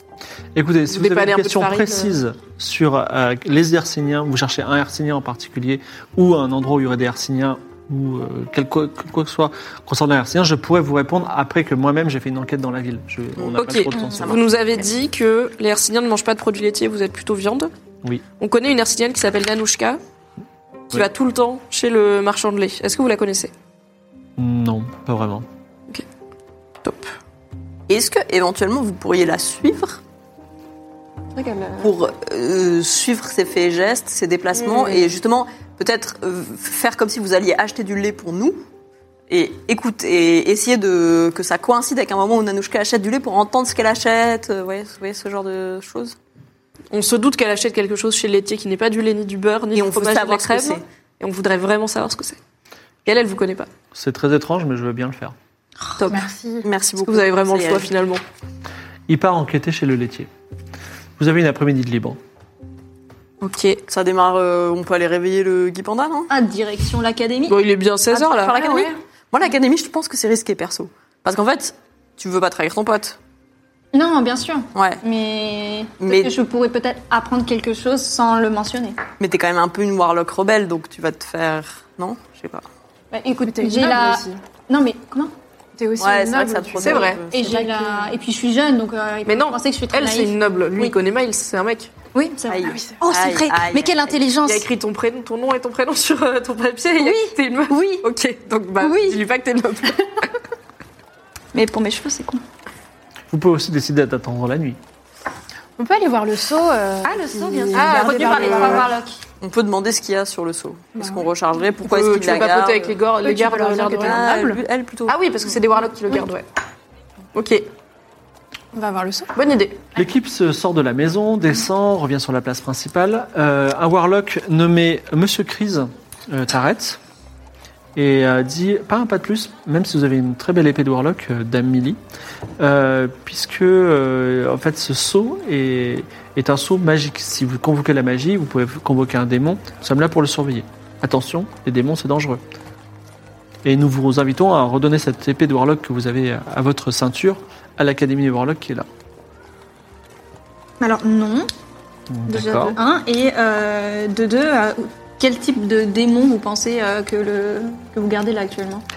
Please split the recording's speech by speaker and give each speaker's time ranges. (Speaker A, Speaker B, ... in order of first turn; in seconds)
Speaker A: 0.5-14.4, 24.4-25.4, 53.9-55.3, 59.1-60.3, 61.2-62.2, 103.3-104.8, 119.9-127.0, 127.9-132.0, 132.6-142.4, 143.6-148.9, 152.1-152.8
Speaker B: 0.9-2.1, 13.6-17.7, 18.4-20.0, 20.9-23.5, 26.8-27.1, 34.6-35.1, 46.9-52.4, 53.0-53.7, 57.0-58.2, 63.4-63.8, 67.5-68.8, 86.8-87.2, 89.2-91.9, 94.4-100.3, 107.7-108.9, 111.8-114.3, 115.1-116.4, 117.3-117.7, 119.3-119.8
Speaker C: 13.4-14.9, 27.9-30.0, 31.8-38.6, 39.3-46.1, 49.7-50.8, 56.6-57.9, 63.9-66.3, 68.1-73.2, 74.7-75.0, 76.0-76.3, 79.2-82.7, 86.0-87.4, 92.5-94.2, 109.4-113.0, 113.9-115.5
Speaker D: 31.4-31.9, 66.3-67.6, 73.9-79.0, 83.1-85.3, 87.3-91.0, 92.1-94.7, 97.0-98.1, 98.8-99.2, 101.5-102.4, 107.0-109.2, 150.8-151.5, 152.3-158.8
Speaker E: 56.1-56.6, 83.4-84.4, 85.8-88.1, 105.8-108.9, 111.0-111.2, 113.2-114.6, 118.7-119.3